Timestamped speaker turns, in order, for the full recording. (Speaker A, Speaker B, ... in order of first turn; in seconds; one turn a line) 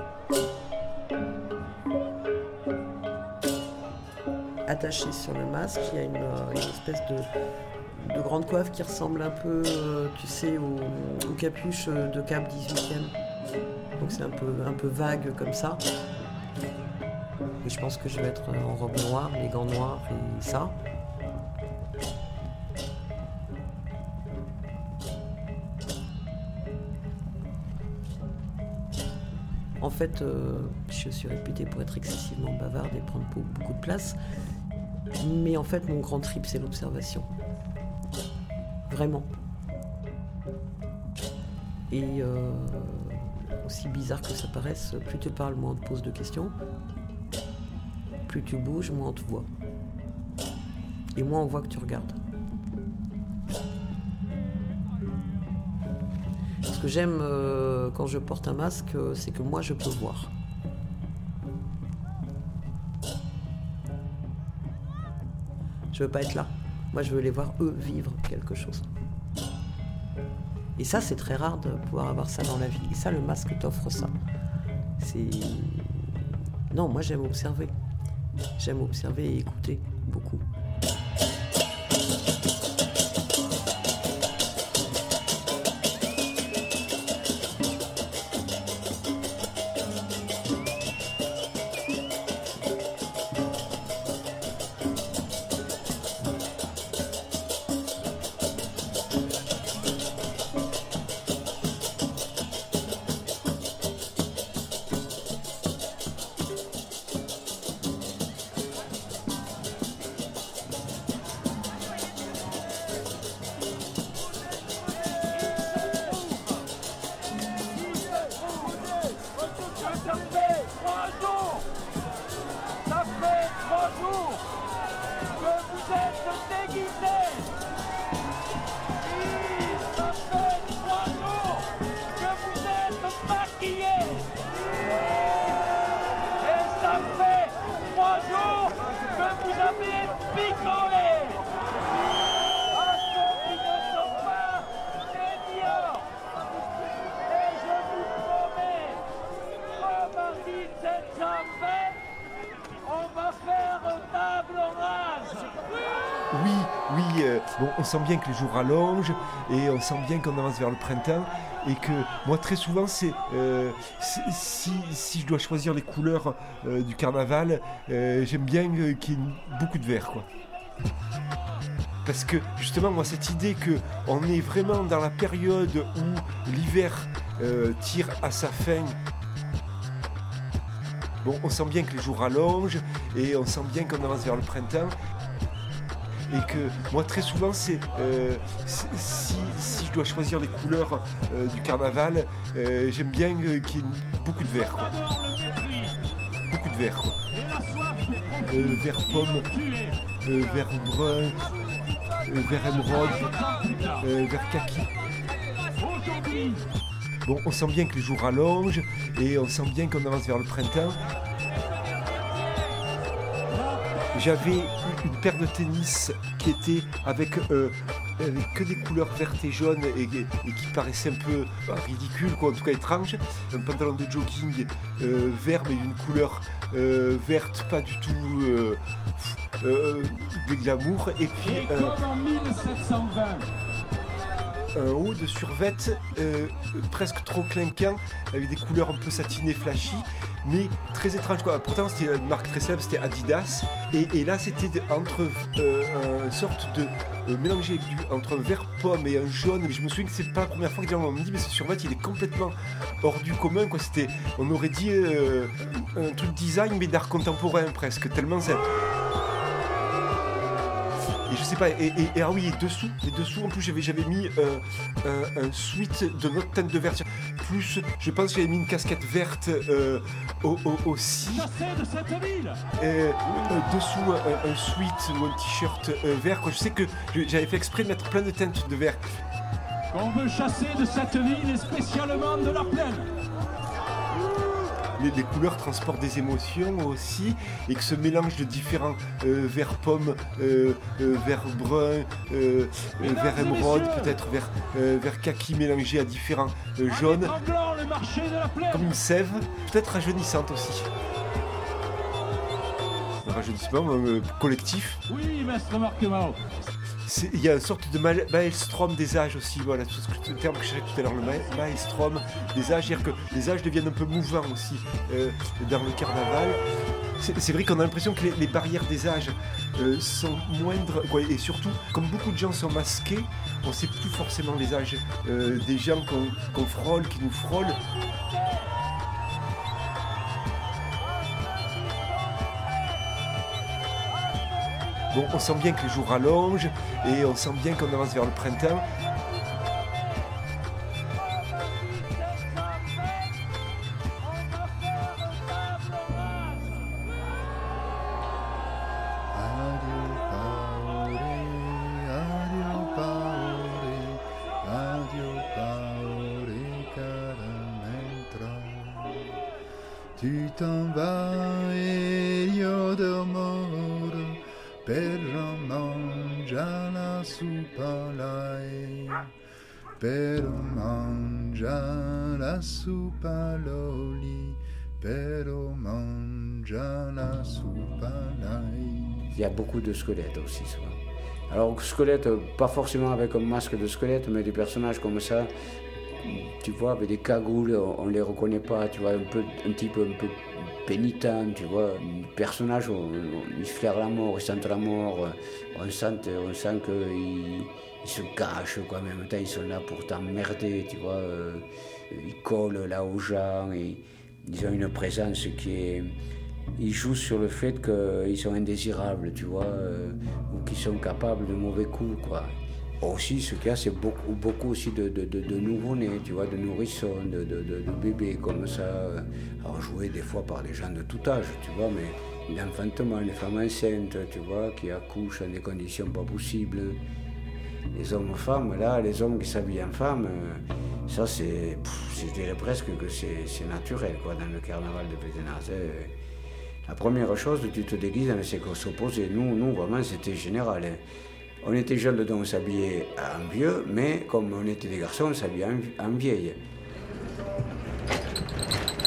Speaker A: 4.7-7.3
Speaker A: 7.9-13.2
Speaker A: 14.0-15.8
Speaker A: 17.6-20.8
Speaker A: 29.8-34.2
Speaker A: 35.2-37.3
Speaker A: 38.9-39.3
Speaker A: 41.9-46.5
Speaker A: 48.3-49.5
Speaker A: 51.1-52.2
Speaker A: 56.7-60.3
Speaker A: 65.9-68.9
Speaker A: 70.8-74.2
Speaker A: 75.0-77.7
Speaker A: 78.6-80.5
Speaker B: 156.3-170.3
Speaker B: 172.0-179.0
Speaker B: 181.2-184.9
Speaker B: 186.3-195.0
Speaker C: 195.1-195.9
Speaker B: 196.5-197.2
Speaker C: 197.4-198.6
Speaker B: 198.5-199.5
Speaker C: 199.5-199.9
Speaker B: 200.2-201.4
Speaker B: 202.2-203.3
Speaker C: 203.3-204.0
Speaker B: 204.0-204.9
Speaker C: 205.8-206.6
Speaker B: 207.3-211.0
Speaker B: 214.1-232.0
Speaker C: 231.7-233.4
Speaker B: 234.7-258.7
Speaker B: 261.3-271.5
Speaker C: 271.3-272.6
Speaker B: 272.8-279.2
Speaker C: 279.9-283.0
Speaker B: 285.0-297.4
Speaker C: 293.1-294.0
Speaker C: 297.2-298.8
Speaker B: 298.7-300.9
Speaker B: 303.2-305.0
Speaker C: 305.1-306.3
Speaker B: 307.1-316.6
Speaker B: 317.2-327.8
Speaker B: 335.1-338.9
Speaker D: 349.3-359.2
Speaker D: 360.2-369.3
Speaker D: 370.0-379.3
Speaker E: 379.3-385.5
Speaker E: 386.2-406.1
Speaker E: 406.8-427.0
Speaker E: 427.9-436.1
Speaker E: 436.9-441.0
Speaker E: 441.6-446.6